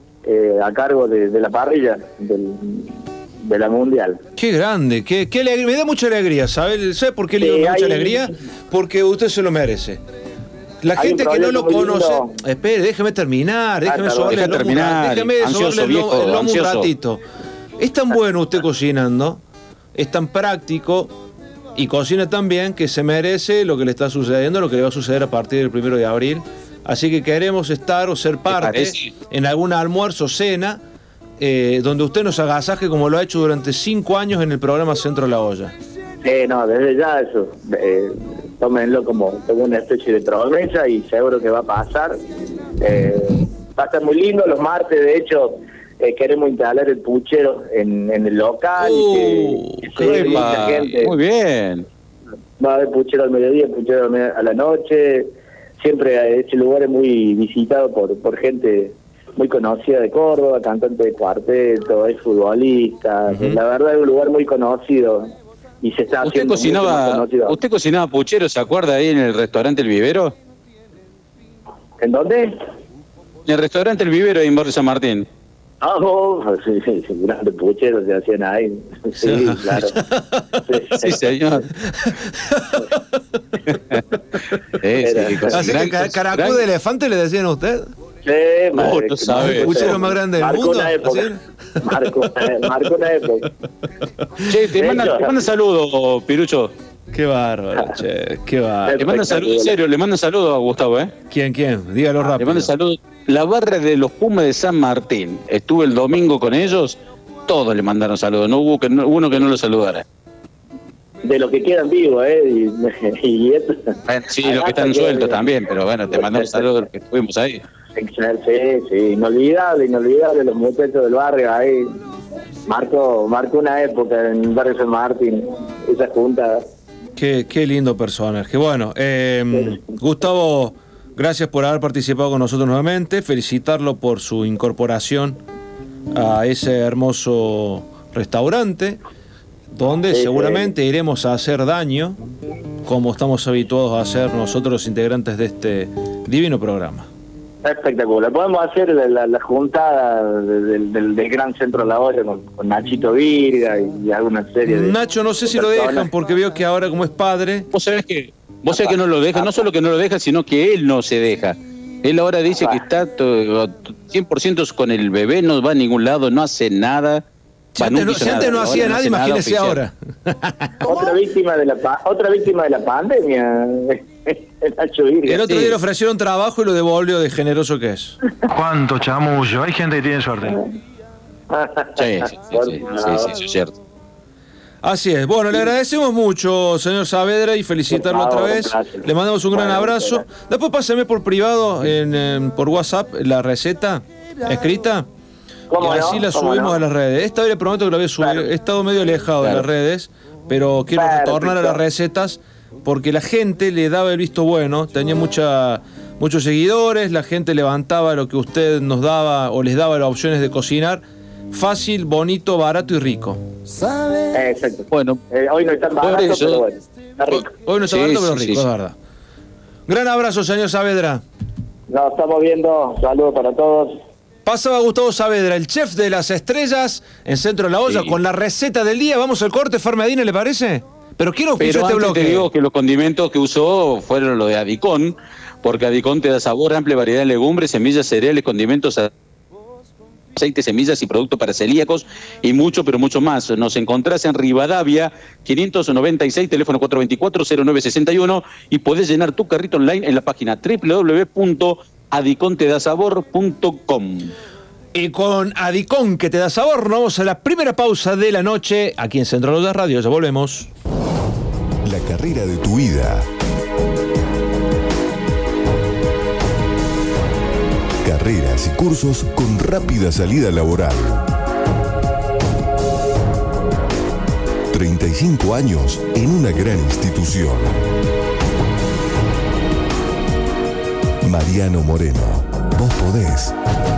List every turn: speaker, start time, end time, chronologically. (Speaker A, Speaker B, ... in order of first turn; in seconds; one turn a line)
Speaker A: 0.2-4.2
Speaker B: 4.4-10.0
Speaker A: 7.4-8.3
Speaker B: 10.8-17.2
Speaker A: 10.9-12.4
Speaker A: 13.8-14.5
Speaker C: 14.3-16.9
Speaker B: 17.8-19.4
Speaker B: 19.9-21.1
Speaker B: 21.8-30.8
Speaker C: 28.5-29.1
Speaker B: 31.4-35.7
Speaker A: 36.2-42.2
Speaker A: 42.8-51.1
Speaker B: 48.8-50.6
Speaker C: 50.0-51.9
Speaker A: 52.6-67.6
Speaker B: 63.3-63.6
Speaker C: 66.2-70.3
Speaker A: 72.0-72.6
Speaker C: 73.5-75.3
Speaker A: 75.8-80.0
Speaker B: 79.2-80.6
Speaker A: 80.7-81.2
Speaker C: 81.0-81.7
Speaker B: 82.4-83.0
Speaker C: 83.7-84.0
Speaker C: 84.8-86.7
Speaker A: 85.0-85.8
Speaker B: 85.5-87.9
Speaker A: 88.2-93.5
Speaker C: 88.7-90.0
Speaker B: 89.3-91.4
Speaker B: 91.9-92.6
Speaker C: 94.4-96.7
Speaker A: 94.6-95.4
Speaker B: 97.1-99.0
Speaker A: 98.8-99.7
Speaker C: 99.0-101.1
Speaker B: 101.3-102.7
Speaker C: 102.3-110.0
Speaker A: 111.2-115.4
Speaker C: 114.1-117.6
Speaker A: 116.1-116.7
Speaker A: 118.0-121.9
Speaker A: 122.7-126.7
Speaker B: 127.2-135.4
Speaker B: 136.1-139.0
Speaker B: 139.8-142.2
Speaker A: 140.1-140.7
Speaker B: 142.8-147.1
Speaker A: 147.6-156.1
Speaker B: 154.7-157.7
Speaker C: 157.7-167.2
Speaker A: 158.7-159.7
Speaker A: 162.6-162.8
Speaker B: 167.8-171.2
Speaker C: 167.8-169.8
Speaker A: 170.8-175.5
Speaker B: 175.3-178.2
Speaker C: 175.5-175.8
Speaker D: 178.5-180.6
Speaker A: 181.5-183.3
Speaker C: 182.0-183.7
Speaker B: 184.8-195.1
Speaker A: 187.9-190.2
Speaker A: 195.7-196.8
Speaker B: 195.8-213.4
Speaker A: 198.2-198.5
Speaker A: 200.9-201.8
Speaker A: 214.3-217.5
Speaker C: 214.9-215.2
Speaker C: 216.0-216.6
Speaker B: 217.3-219.0
Speaker C: 217.9-218.7
Speaker B: 219.9-221.2
Speaker A: 221.9-224.0
Speaker B: 224.5-232.5
Speaker C: 227.9-228.2
Speaker C: 231.6-239.1
Speaker C: 240.4-254.3
Speaker B: 254.9-260.7
Speaker E: 261.8-263.3
Speaker E: 268.0-271.2
Speaker E: 274.7-277.8
Speaker E: 281.2-283.5